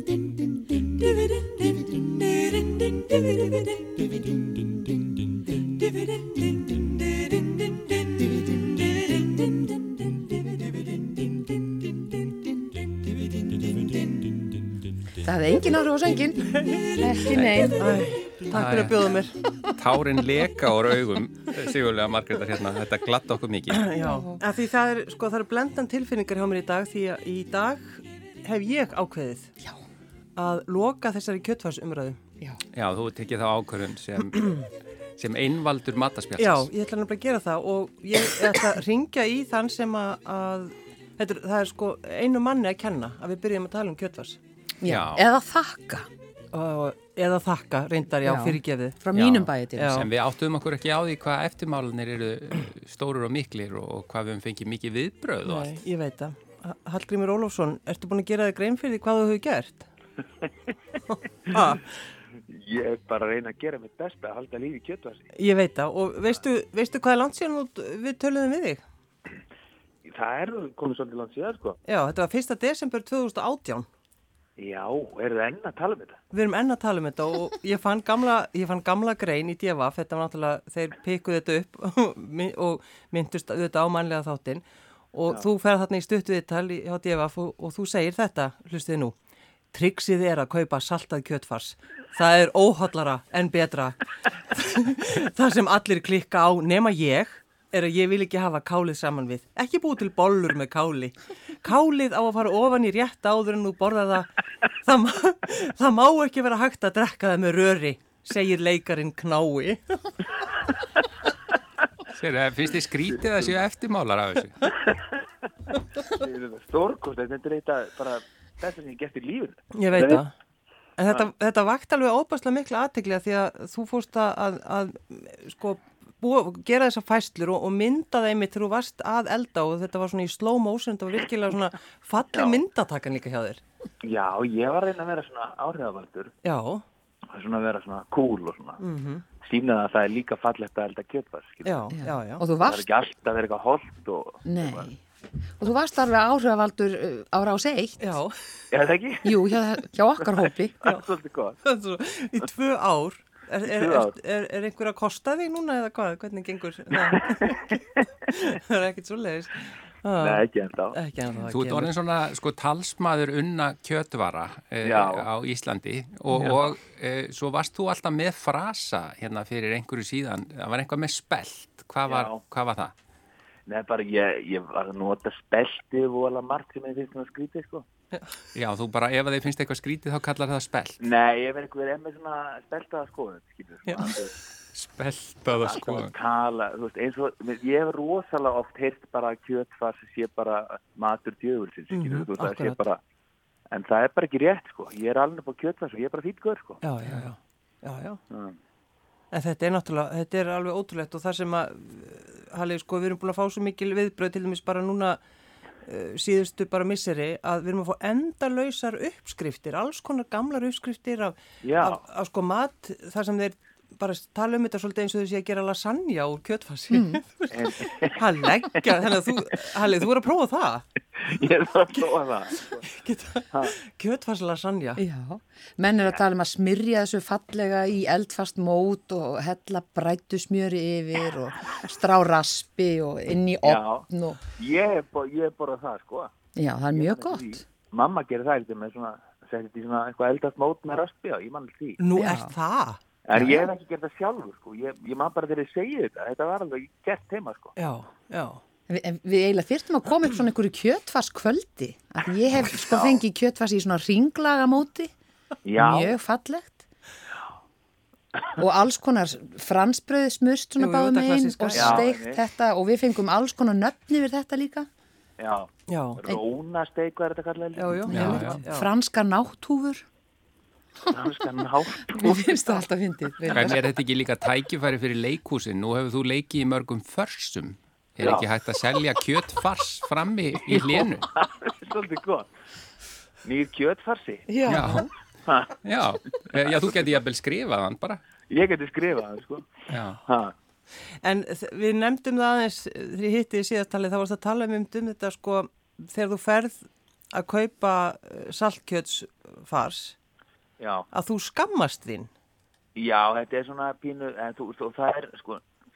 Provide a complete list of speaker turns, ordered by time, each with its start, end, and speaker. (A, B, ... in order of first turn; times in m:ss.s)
0:01.8-0:02.8 A
0:15.1-0:18.0 B
0:16.4-0:19.4 A
0:17.3-0:17.7 C
0:18.5-0:19.1 C
0:19.7-0:23.9 C
0:23.7-0:29.5 A
0:23.9-0:24.4 B
0:30.4-0:32.2 A
0:32.7-0:36.7 C
0:36.4-0:44.4 A
0:44.8-0:46.1 B
0:44.8-0:45.2 C
0:46.5-0:49.0 A
0:48.2-0:50.0 B
0:49.1-0:55.8 C
0:49.8-0:50.1 A
0:55.4-0:59.9 A
1:01.5-1:01.9 A
1:02.5-1:05.3 D
1:05.3-1:08.8 A
1:10.1-1:11.8 D
1:11.9-1:13.9 A
1:14.6-1:16.2 D
1:16.3-1:29.2 A
1:29.7-1:50.3 A
1:52.1-1:54.7 C
1:56.1-2:00.2 D
1:59.7-2:00.3 A
2:01.0-2:13.6 A
2:12.3-2:12.6 D
2:14.0-2:16.3 D
2:16.4-2:16.8 A
2:17.3-2:18.8 D
2:18.8-2:19.2 A
2:19.4-2:21.8 D
2:21.6-2:22.4 A
2:22.0-2:22.8 B
2:22.6-2:24.9 D
2:24.4-2:25.0 B
2:25.6-2:28.2 B
2:28.0-2:28.3 A
2:28.7-2:29.5 D
2:29.2-2:30.8 B
2:30.5-2:31.6 D
2:31.6-2:41.9 A
2:33.6-2:34.2 D
2:37.6-2:37.8 D
2:40.2-2:41.0 D
2:41.5-2:52.9 C
2:44.8-2:45.3 D
2:52.1-2:52.4 D
2:53.7-2:57.9 D
2:58.6-3:01.0 C
3:01.0-3:04.3 D
3:04.7-3:06.1 C
3:05.5-3:13.0 D
3:11.9-3:12.8 A
3:13.7-3:16.8 D
3:16.8-3:18.2 A
3:18.3-3:18.6 D
3:19.3-3:25.2 A
3:25.8-3:40.8 A
3:31.6-3:32.0 D
3:36.9-3:37.2 B
3:37.5-3:38.2 D
3:41.2-3:42.9 D
3:42.9-3:45.0 A
3:45.0-3:54.4 B
3:53.6-3:56.3 D
3:56.6-3:57.6 B
3:57.0-4:02.0 D
4:02.0-4:03.0 A
4:02.2-4:02.5 B
4:03.2-4:07.7 D
4:03.4-4:03.7 B
4:07.8-4:08.6 A
4:08.9-4:15.1 B
4:12.7-4:13.2 D
4:15.6-4:16.2 D
4:15.8-4:16.8 B
4:18.6-4:24.9 B
4:20.8-4:22.1 A
4:21.7-4:22.4 D
4:25.4-4:28.1 D
4:25.9-4:26.2 A
4:27.8-4:28.9 A
4:28.1-4:30.0 B
4:28.1-4:28.6 C
4:31.1-4:32.8 D
4:32.0-4:33.8 B
4:33.5-4:41.3 C
4:38.2-4:38.5 D
4:40.6-4:42.5 D
4:43.4-4:44.5 D
4:44.5-4:45.1 A
4:44.7-4:45.1 C
4:45.5-4:45.8 D
4:45.8-4:48.2 C
4:48.5-4:49.7 D
4:49.9-4:50.2 C
4:50.2-4:50.5 D
4:51.2-5:00.2 A
5:00.8-5:01.1 D
5:01.1-5:02.3 A
5:03.0-5:05.6 D